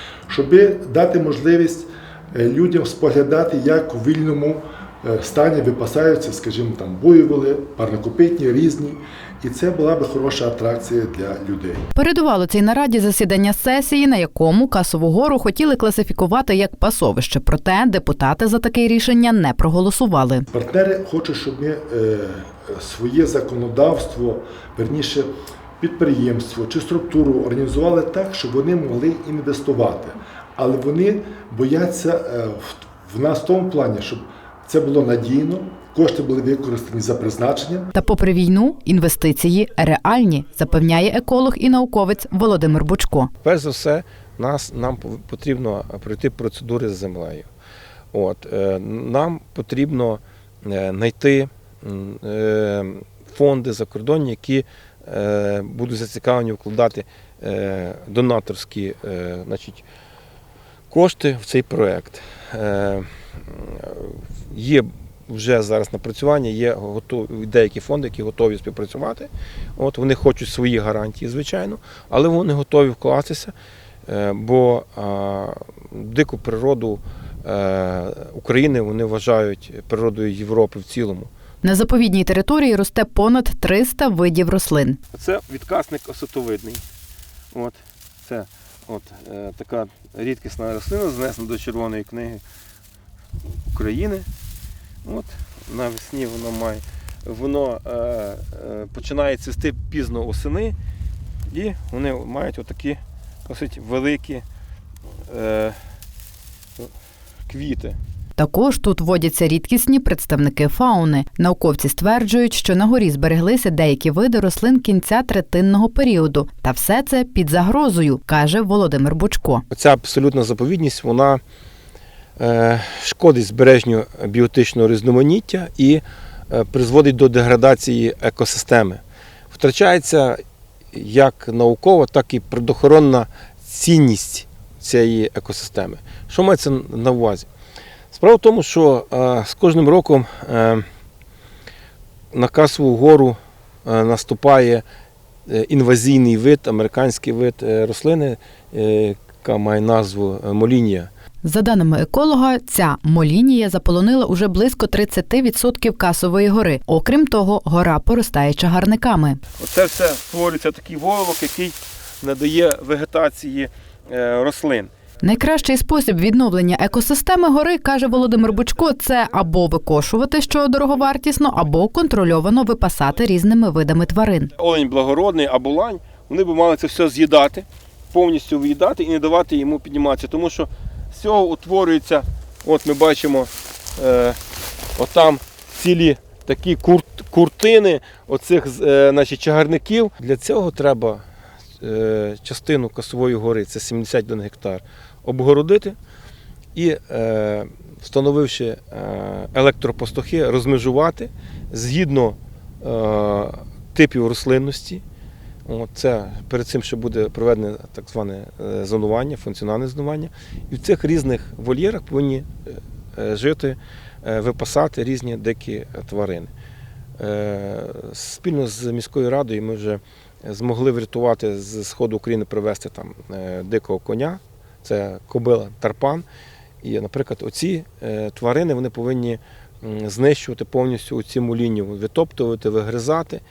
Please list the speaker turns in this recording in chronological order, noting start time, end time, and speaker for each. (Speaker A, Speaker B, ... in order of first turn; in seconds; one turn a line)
Speaker A: 0.3-11.8
Speaker B: 11.9-20.4
Speaker A: 20.5-37.9
Speaker B: 37.9-43.3
Speaker C: 43.4-47.5
Speaker C: 48.1-59.8
Speaker C: 60.9-73.5
Speaker C: 74.1-81.3
Speaker B: 81.6-85.0
Speaker C: 85.1-86.8
Speaker C: 87.5-92.4
Speaker C: 93.7-94.3
Speaker C: 95.0-100.8
Speaker C: 101.5-104.5
Speaker C: 105.3-105.8
Speaker C: 107.5-108.0
Speaker B: 108.4-119.6
Speaker C: 119.7-121.4
Speaker C: 122.4-130.4
Speaker C: 130.9-137.5
Speaker C: 138.1-140.8
Speaker C: 142.3-144.8
Speaker C: 145.5-151.1
Speaker B: 151.4-159.4
Speaker C: 159.6-164.9
Speaker B: 165.2-174.5
Speaker C: 174.6-184.4
Speaker C: 184.9-191.2
Speaker C: 191.8-196.0
Speaker C: 196.7-205.0
Speaker C: 205.7-216.5
Speaker C: 217.2-226.2
Speaker C: 226.8-233.4